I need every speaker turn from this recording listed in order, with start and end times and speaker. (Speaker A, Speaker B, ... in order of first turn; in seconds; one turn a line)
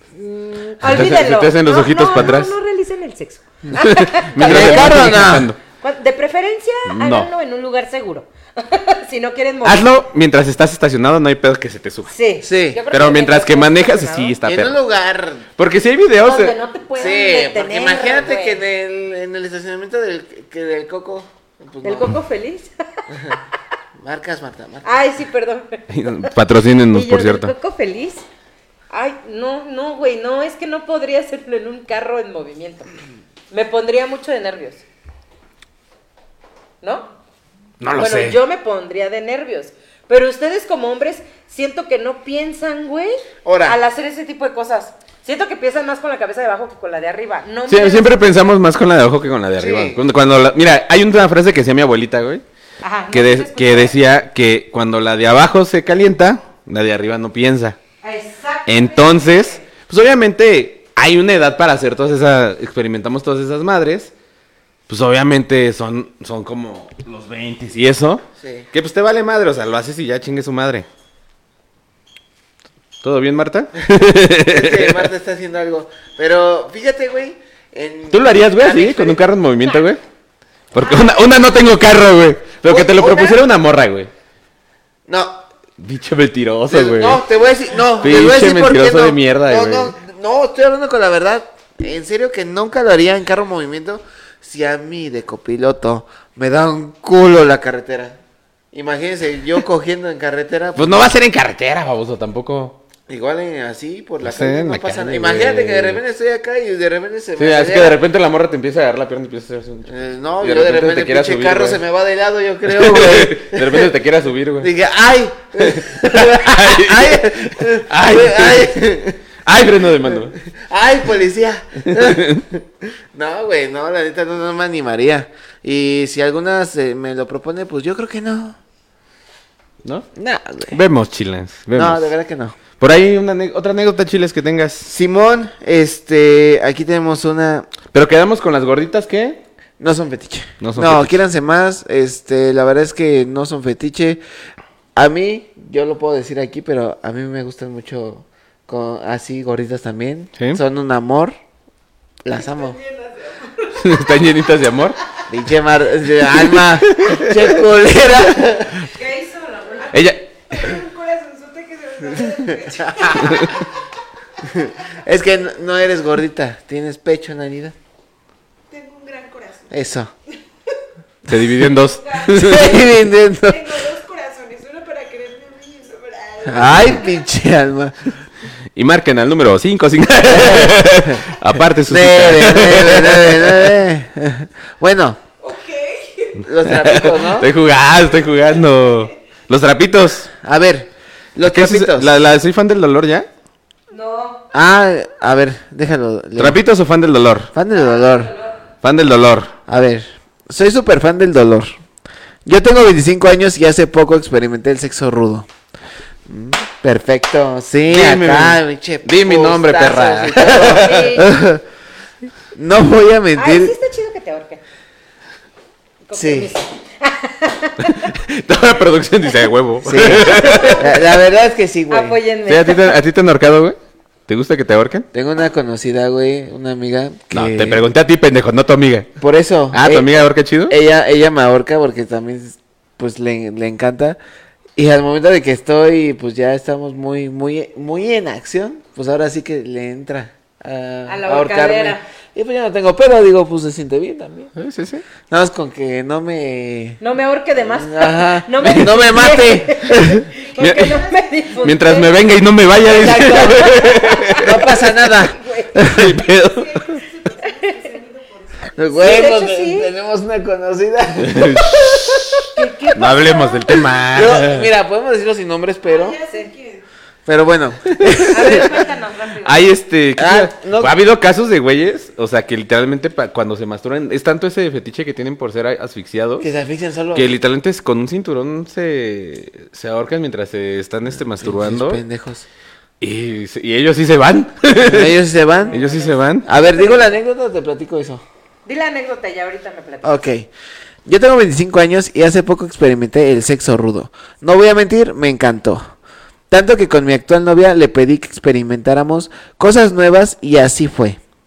Speaker A: 0.1-9.8
Speaker B: 0.8-2.5
Speaker B: 3.7-5.6
Speaker C: 4.4-5.5
Speaker B: 6.8-7.3
Speaker B: 9.6-12.1
Speaker A: 12.1-14.4
Speaker C: 12.4-12.8
Speaker B: 12.9-14.8
Speaker C: 14.4-15.5
Speaker B: 15.6-16.6
Speaker A: 16.2-18.6
Speaker C: 17.0-22.2
Speaker A: 21.8-23.4
Speaker C: 23.1-23.4
Speaker C: 24.0-24.9
Speaker A: 24.8-26.3
Speaker B: 25.9-27.5
Speaker A: 26.9-28.2
Speaker A: 28.9-32.9
Speaker A: 33.5-34.9
Speaker A: 36.8-37.1
Speaker B: 37.8-38.4
Speaker A: 38.0-48.4
Speaker C: 43.4-43.8
Speaker B: 47.7-52.4
Speaker C: 49.6-50.0
Speaker A: 52.8-54.0
Speaker B: 53.1-57.8
Speaker A: 58.0-59.6
Speaker B: 58.7-64.1
Speaker B: 64.9-70.9
Speaker C: 68.4-68.7
Speaker B: 73.0-75.1
Speaker C: 74.4-79.2
Speaker B: 78.1-80.0
Speaker B: 80.7-84.1
Speaker A: 80.8-81.2
Speaker C: 82.7-83.4
Speaker C: 85.1-85.4
Speaker B: 85.8-87.2
Speaker C: 86.7-98.2
Speaker B: 88.0-89.9
Speaker C: 98.7-101.0
Speaker B: 100.8-102.8
Speaker C: 103.1-108.0
Speaker B: 104.2-106.0
Speaker B: 107.4-111.8
Speaker C: 109.9-113.9
Speaker B: 112.7-114.7
Speaker C: 114.6-119.2
Speaker B: 115.6-120.3
Speaker C: 119.9-128.6
Speaker B: 121.9-122.4
Speaker C: 130.2-130.8
Speaker B: 130.7-132.1
Speaker C: 131.7-132.6
Speaker B: 132.8-134.9
Speaker C: 134.9-137.7
Speaker B: 137.9-139.4
Speaker C: 139.8-144.2
Speaker B: 140.6-141.2
Speaker C: 144.9-151.3
Speaker C: 152.2-152.8
Speaker D: 152.3-154.4
Speaker B: 153.8-155.0
Speaker C: 155.3-158.9
Speaker B: 156.4-157.4
Speaker D: 158.9-163.8
Speaker A: 159.2-159.9
Speaker B: 159.9-160.8
Speaker C: 162.8-163.5
Speaker B: 163.2-163.5
Speaker D: 164.4-164.9
Speaker C: 164.4-167.8
Speaker D: 168.7-169.8
Speaker C: 169.7-170.1
Speaker B: 171.3-172.9
Speaker D: 171.3-172.8
Speaker C: 172.3-173.8
Speaker D: 173.4-177.2
Speaker C: 176.4-178.2
Speaker B: 176.6-177.0
Speaker B: 178.8-183.7
Speaker C: 180.2-185.2
Speaker D: 185.4-186.5
Speaker C: 186.4-187.5
Speaker B: 186.7-190.3
Speaker D: 188.0-189.1
Speaker C: 190.3-192.1
Speaker B: 191.4-193.3
Speaker A: 193.9-194.2
Speaker D: 194.0-194.4
Speaker C: 194.5-196.6
Speaker B: 196.4-197.5
Speaker C: 197.5-198.3
Speaker A: 197.9-198.3
Speaker B: 198.8-199.6
Speaker C: 199.7-201.8
Speaker C: 202.4-205.5
Speaker C: 206.3-211.6
Speaker B: 207.9-211.2
Speaker A: 210.4-211.3
Speaker C: 212.6-213.7
Speaker A: 213.4-214.6
Speaker A: 216.1-218.1
Speaker C: 216.1-216.5
Speaker B: 217.8-220.9
Speaker C: 219.8-222.2
Speaker A: 220.2-221.0
Speaker A: 221.9-223.0
Speaker B: 222.5-223.8
Speaker B: 224.3-225.1
Speaker C: 225.1-227.8
Speaker B: 227.3-229.1
Speaker C: 229.2-234.2
Speaker B: 229.7-230.8
Speaker C: 234.8-244.5
Speaker A: 241.1-242.0
Speaker B: 244.6-245.0
Speaker C: 245.3-247.0
Speaker A: 247.0-252.2
Speaker C: 247.6-250.3
Speaker D: 250.3-251.3
Speaker B: 250.6-251.0
Speaker B: 251.6-254.5
Speaker C: 252.9-256.1
Speaker A: 253.2-256.0
Speaker B: 255.8-257.0
Speaker D: 256.4-259.3
Speaker C: 258.8-262.4
Speaker A: 258.9-259.9
Speaker B: 261.2-262.4
Speaker A: 262.5-263.8
Speaker B: 262.9-264.7
Speaker C: 264.1-266.2
Speaker D: 265.9-266.9
Speaker C: 267.3-268.8
Speaker B: 267.9-268.7
Speaker A: 268.3-269.7
Speaker B: 269.4-276.5
Speaker C: 270.2-270.9
Speaker C: 276.4-277.3
Speaker B: 277.1-282.0
Speaker C: 281.4-282.5
Speaker B: 283.0-285.1
Speaker C: 284.8-285.8
Speaker A: 285.6-287.1
Speaker B: 285.7-286.5
Speaker C: 286.4-288.2
Speaker A: 288.7-290.2
Speaker C: 290.0-290.5
Speaker C: 291.1-295.9
Speaker C: 296.5-301.2